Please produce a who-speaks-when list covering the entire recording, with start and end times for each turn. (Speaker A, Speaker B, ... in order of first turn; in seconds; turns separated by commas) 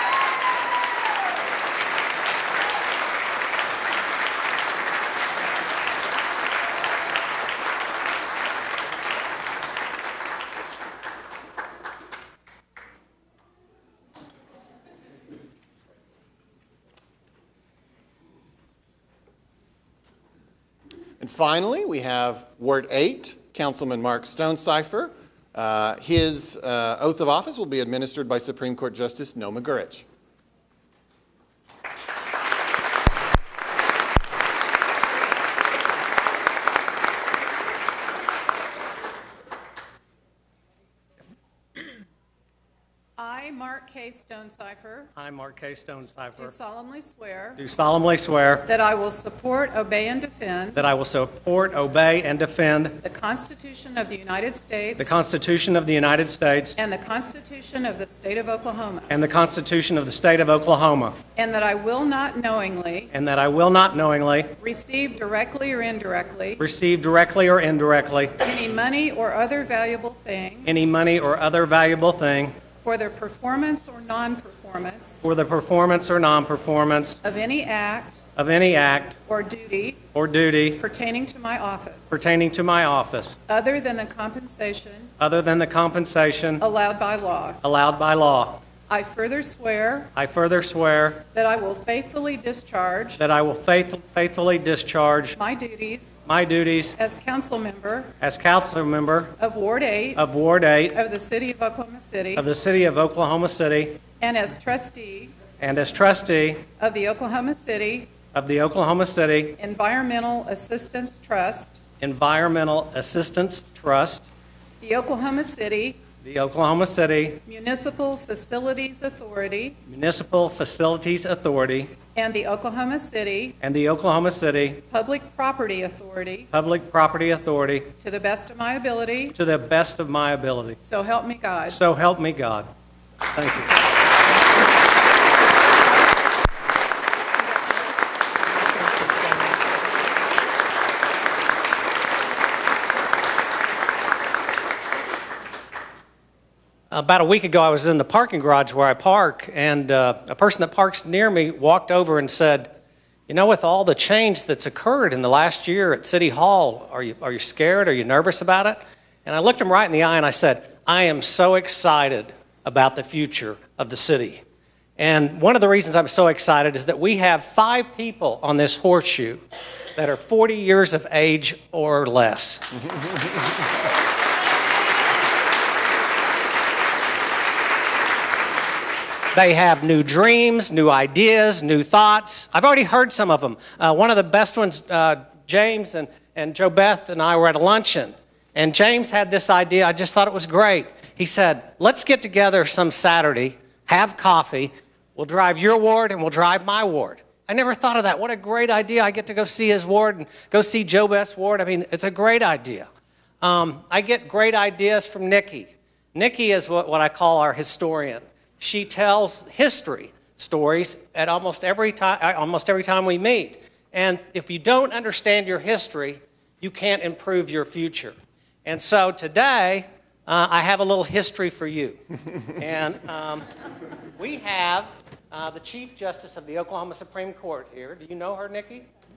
Speaker A: 21.2-30.1, Speaker B: 43.2-45.1, Speaker C: 45.1-46.5, Speaker B: 46.4-47.6, Speaker C: 47.6-48.7, Speaker B: 48.6-50.9, Speaker C: 50.8-53.0, Speaker B: 53.0-55.2, Speaker C: 55.0-56.8, Speaker B: 56.8-59.1, Speaker C: 59.1-61.1, Speaker B: 61.3-63.1, Speaker C: 63.1-64.5, Speaker B: 64.6-66.6, Speaker C: 66.6-68.3, Speaker B: 68.4-70.7, Speaker C: 70.6-72.5, Speaker B: 72.8-75.2, Speaker C: 75.2-77.2, Speaker B: 77.2-78.2, Speaker C: 78.3-79.2, Speaker B: 79.2-80.0, Speaker C: 80.1-80.8, Speaker B: 80.8-82.2, Speaker C: 82.1-83.4, Speaker B: 83.5-85.1, Speaker C: 85.2-86.6, Speaker B: 86.6-87.6, Speaker C: 87.6-88.6, Speaker B: 88.9-90.1, Speaker C: 90.1-91.2, Speaker B: 91.3-93.2, Speaker C: 93.2-95.4, Speaker B: 95.3-96.2, Speaker C: 96.2-97.0, Speaker B: 97.0-98.1, Speaker C: 98.2-99.3, Speaker B: 99.4-100.2, Speaker C: 100.2-101.0, Speaker B: 100.9-102.5, Speaker C: 102.3-104.0, Speaker B: 104.2-105.3, Speaker C: 105.6-106.6, Speaker B: 106.8-108.1, Speaker C: 108.3-109.5, Speaker B: 109.6-111.8, Speaker C: 112.0-114.3, Speaker B: 114.8-116.0, Speaker C: 116.2-117.4, Speaker B: 117.4-119.8, Speaker C: 119.8-121.9, Speaker B: 122.1-123.6, Speaker C: 123.6-124.8, Speaker B: 124.9-126.5, Speaker C: 126.5-127.9, Speaker B: 128.0-129.3, Speaker C: 129.3-130.8, Speaker B: 130.8-131.8, Speaker C: 131.7-132.7, Speaker C: 133.3-133.8, Speaker C: 146.9-152.7, Speaker C: 153.3-164.4, Speaker C: 165.0-169.4, Speaker C: 169.9-172.7, Speaker C: 179.3-202.9, Speaker C: 203.4-218.1, Speaker C: 218.6-222.0, Speaker C: 222.6-223.4, Speaker C: 224.2-228.9